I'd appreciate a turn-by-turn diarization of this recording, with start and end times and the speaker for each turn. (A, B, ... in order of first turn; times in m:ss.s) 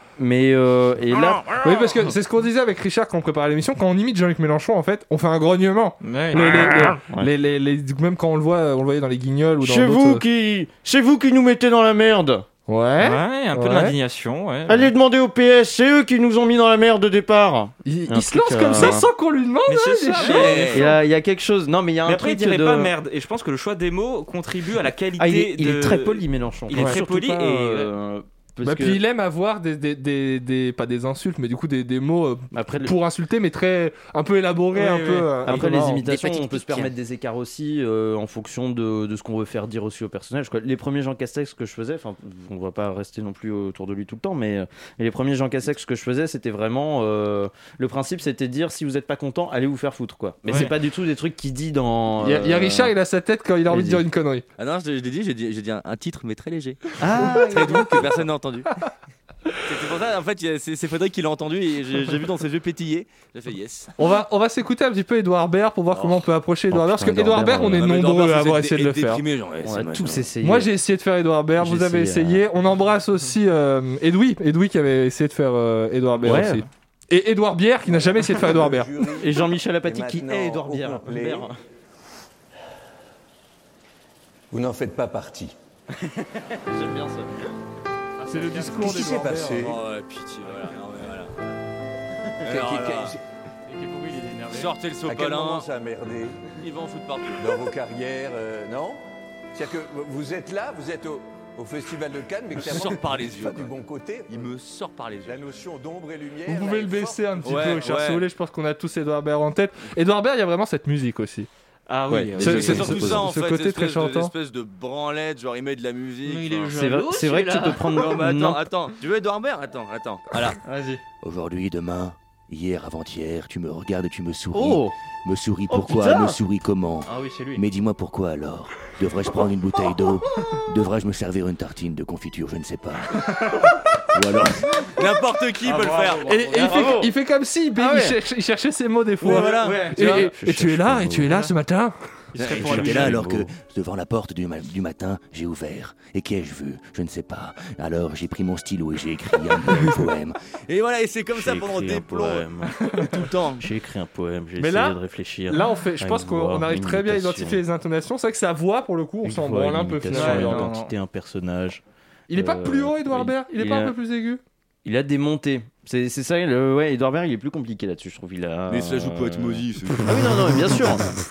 0:00.2-0:01.4 A
0:01.6-0:10.2 B
0:06.0-0:06.8 C
0:06.3-0:07.3 A
0:09.6-0:12.4 A
0:12.7-0:14.0 B
0:13.0-0:14.9 C
0:14.7-0:19.1 A
0:17.8-0:20.7 B
0:19.7-0:20.9 C
0:20.2-0:20.9 D
0:20.5-0:22.9 A
0:22.0-0:27.9 C
0:25.2-0:29.0 A
0:26.8-0:27.0 B
0:28.6-0:36.0 B
0:32.5-0:32.9 A
0:34.7-0:36.0 C
0:35.4-0:53.0 A
0:36.1-0:36.7 D
0:52.2-0:54.4 B
0:53.7-0:54.0 A
0:54.6-0:58.7 D
0:57.0-0:58.0 A
0:59.6-1:03.9 D
1:04.0-1:09.2 B
1:05.9-1:06.3 D
1:06.7-1:07.9 A
1:07.6-1:10.3 D
1:09.6-1:10.7 A
1:10.4-1:18.9 B
1:11.6-1:12.4 A
1:16.2-1:16.6 A
1:17.9-1:21.5 E
1:19.2-1:21.6 A
1:24.5-1:25.5 E
1:26.0-1:27.3 A
1:28.2-1:28.8 C
1:28.3-1:29.7 B
1:28.7-1:29.8 E
1:29.6-1:31.3 D
1:32.4-1:33.2 D
1:32.5-1:33.2 E
1:33.7-1:34.7 C
1:34.4-1:35.7 D
1:35.1-1:36.5 E
1:36.6-1:37.6 D
1:37.4-1:39.0 E
1:39.6-1:44.5 E
1:42.6-1:43.8 D
1:44.3-1:45.5 D
1:45.2-1:47.7 E
1:46.5-1:51.5 B
1:47.4-1:48.3 D
1:51.9-1:53.2 C
1:52.1-1:53.2 A
1:52.4-1:56.9 D
1:52.4-1:54.3 B
1:56.3-1:58.0 C
1:56.7-1:58.6 A
1:57.9-2:00.6 D
2:00.6-2:01.0 C
2:01.2-2:13.5 D
2:04.5-2:05.0 A
2:05.7-2:06.4 A
2:07.1-2:07.6 C
2:14.1-2:16.9 D
2:15.6-2:16.7 C
2:16.2-2:22.0 B
2:16.5-2:17.1 A
2:17.8-2:18.2 A
2:19.2-2:21.5 A
2:19.2-2:20.2 D
2:22.4-2:23.2 C
2:22.4-2:33.7 D
2:22.4-2:23.5 A
2:31.3-2:32.8 A
2:33.6-2:37.6 A
2:34.6-2:40.8 B
2:39.2-2:44.0 A
2:40.1-2:40.9 C
2:42.3-2:44.4 B
2:44.8-2:51.1 A
2:48.7-2:50.8 D